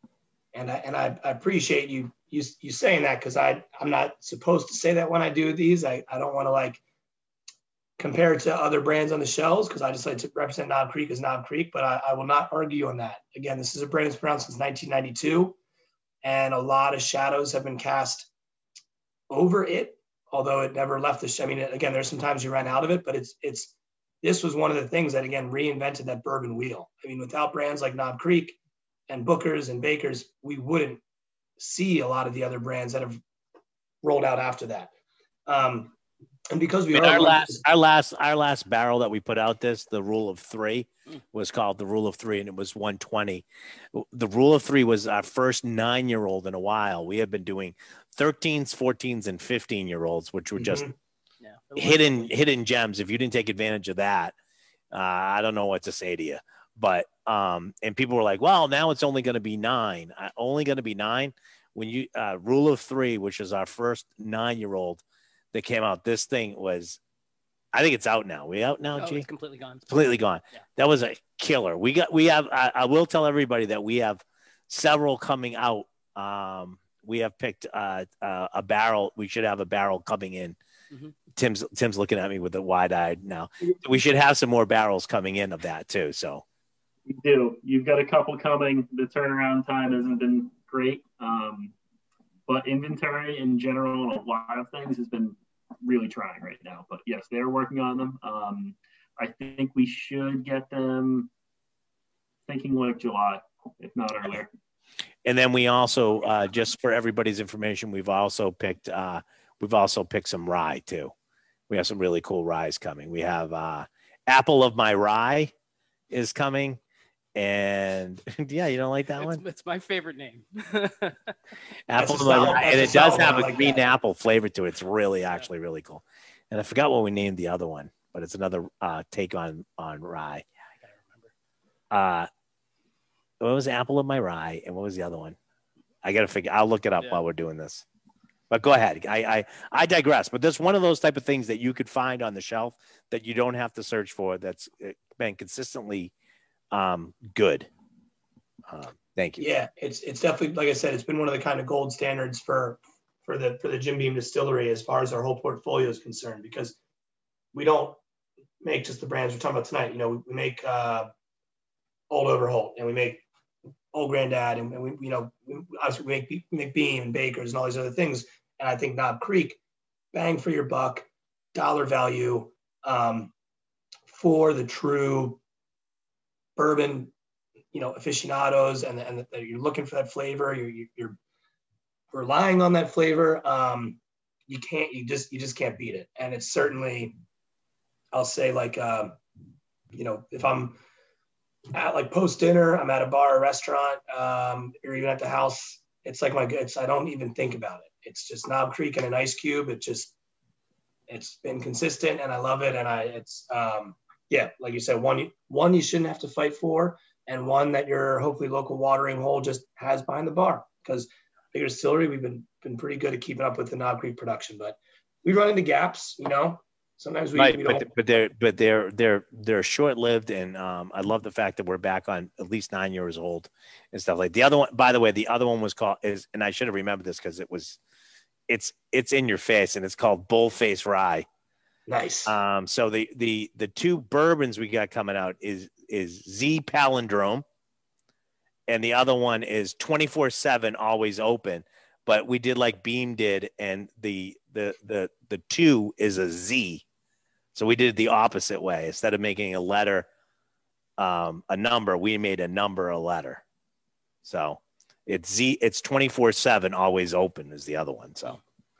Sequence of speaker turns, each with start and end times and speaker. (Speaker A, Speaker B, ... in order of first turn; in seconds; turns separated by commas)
Speaker A: 0.5-6.8, Speaker A: 8.0-15.6, Speaker A: 16.2-18.3, Speaker A: 19.3-28.6, Speaker A: 29.1-31.0, Speaker A: 31.6-33.2, Speaker A: 34.0-34.9, Speaker A: 35.5-35.9, Speaker A: 36.5-37.6, Speaker B: 36.9-50.9, Speaker A: 50.6-50.9, Speaker C: 51.4-52.4, Speaker B: 51.8-54.3, Speaker B: 54.9-67.0, Speaker B: 67.7-69.3, Speaker C: 69.0-69.9, Speaker B: 69.9-80.6, Speaker B: 81.3-86.4, Speaker D: 87.1-91.7, Speaker D: 92.5-101.3, Speaker D: 102.5-104.5, Speaker B: 105.2-111.1, Speaker B: 111.7-115.5, Speaker B: 116.1-116.8, Speaker B: 117.3-119.4, Speaker C: 119.1-121.4, Speaker B: 121.9-130.4, Speaker A: 121.9-123.8, Speaker C: 130.8-131.3, Speaker B: 131.9-132.3, Speaker B: 133.4-135.4, Speaker B: 136.0-137.8, Speaker B: 138.5-146.1, Speaker B: 146.7-147.7, Speaker B: 148.7-149.4, Speaker A: 149.4-156.8, Speaker A: 157.5-158.0, Speaker A: 158.6-161.1, Speaker A: 162.1-163.2, Speaker A: 163.9-169.6, Speaker A: 170.1-173.3, Speaker A: 174.1-175.4, Speaker A: 176.6-177.1, Speaker A: 177.7-181.2, Speaker A: 182.1-187.2, Speaker A: 188.1-189.2, Speaker A: 189.9-190.8, Speaker A: 191.7-200.1, Speaker A: 201.1-217.9, Speaker B: 217.3-227.8, Speaker B: 228.5-231.3, Speaker A: 231.9-232.3, Speaker B: 232.2-237.4, Speaker B: 238.7-246.8, Speaker B: 247.5-250.1, Speaker B: 251.0-253.4, Speaker B: 254.2-258.4